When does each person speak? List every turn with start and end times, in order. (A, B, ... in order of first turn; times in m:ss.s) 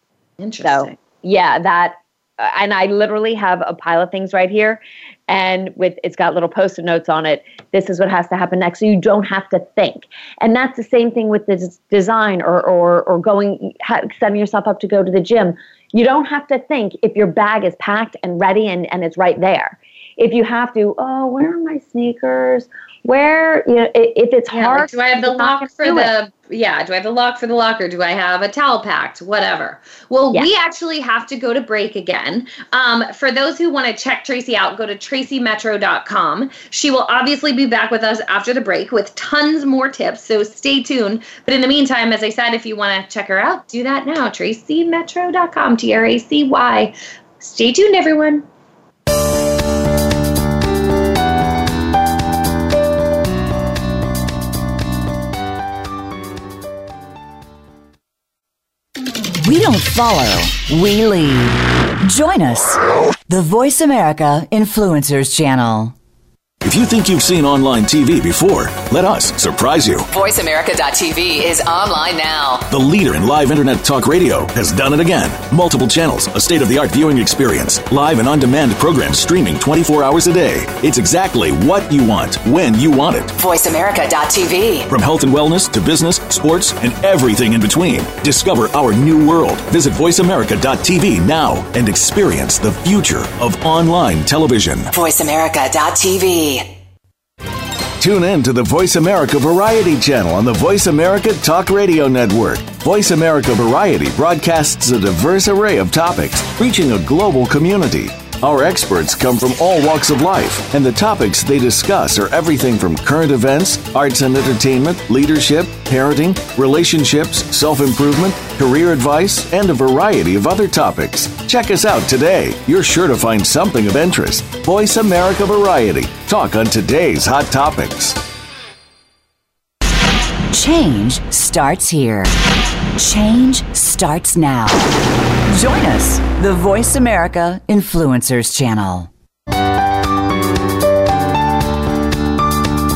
0:00.4-0:00.9 A
0:00.6-0:26.1 B
0:24.5-0:48.4 A
0:59.4-1:05.9 C
1:06.6-1:10.0 D
1:10.1-1:12.7 E
1:12.7-1:23.3 D
1:23.3-1:24.9 E
1:24.9-1:34.9 D
1:34.9-1:36.8 E
1:38.0-2:08.2 D
2:10.5-2:12.3 C
2:13.0-2:14.9 C
2:15.5-2:19.1 C